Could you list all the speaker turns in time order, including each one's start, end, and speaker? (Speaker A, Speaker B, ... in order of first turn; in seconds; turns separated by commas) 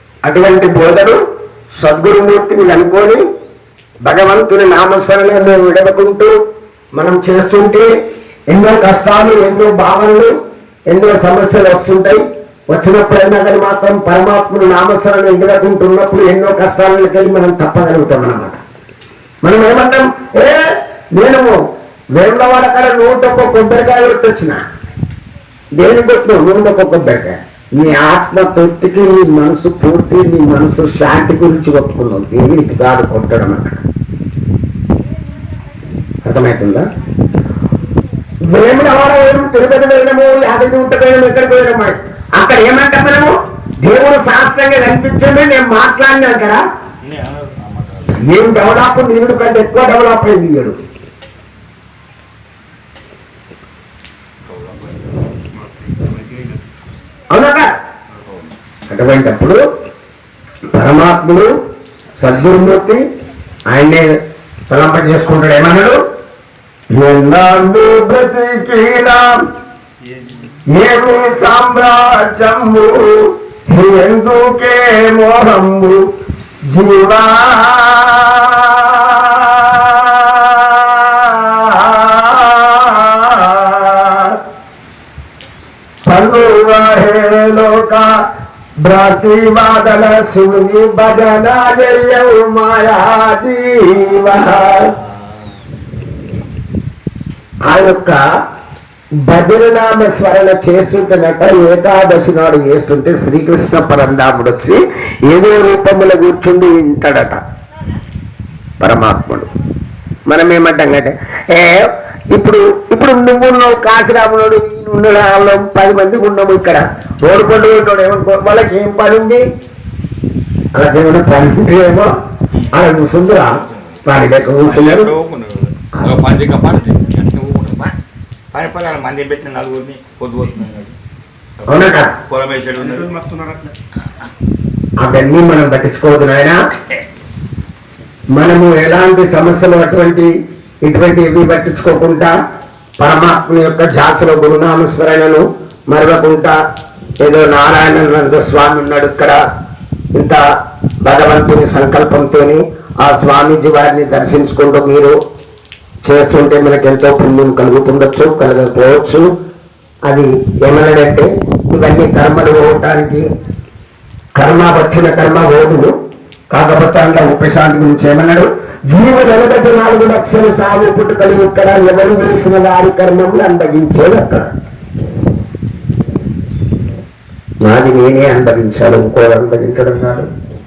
Speaker A: 0.3-1.2, Speaker A: 1.8-3.2, Speaker A: 4.1-6.3, Speaker A: 7.0-7.9, Speaker A: 8.5-10.3, Speaker A: 10.9-18.6, Speaker A: 19.4-20.6, Speaker A: 21.1-21.6, Speaker A: 22.1-24.6, Speaker A: 25.8-33.8, Speaker A: 36.2-36.9, Speaker A: 38.5-46.6, Speaker B: 47.0-48.9, Speaker A: 48.2-50.8, Speaker B: 54.5-55.2, Speaker A: 57.3-57.7, Speaker A: 58.9-59.6, Speaker A: 60.7-61.5, Speaker A: 62.2-63.0, Speaker A: 63.7-64.1, Speaker A: 64.7-66.0, Speaker A: 66.9-69.4, Speaker A: 70.7-76.0, Speaker A: 76.7-84.4, Speaker A: 86.0-88.1, Speaker A: 88.8-94.9, Speaker A: 97.7-98.2, Speaker A: 99.3-107.4, Speaker A: 108.8-109.5, Speaker A: 110.3-119.4, Speaker A: 120.8-122.1, Speaker A: 122.7-125.1, Speaker B: 123.4-124.0, Speaker B: 124.6-127.9, Speaker B: 128.5-130.9, Speaker A: 131.7-132.1, Speaker B: 131.7-133.2, Speaker A: 135.0-136.6, Speaker A: 138.4-140.3, Speaker A: 140.8-142.3, Speaker A: 143.0-146.5, Speaker A: 147.2-149.3, Speaker A: 150.1-150.4, Speaker A: 151.1-155.2, Speaker A: 156.0-159.3, Speaker A: 160.1-163.2, Speaker A: 164.4-165.9, Speaker A: 166.5-174.5, Speaker A: 177.6-180.3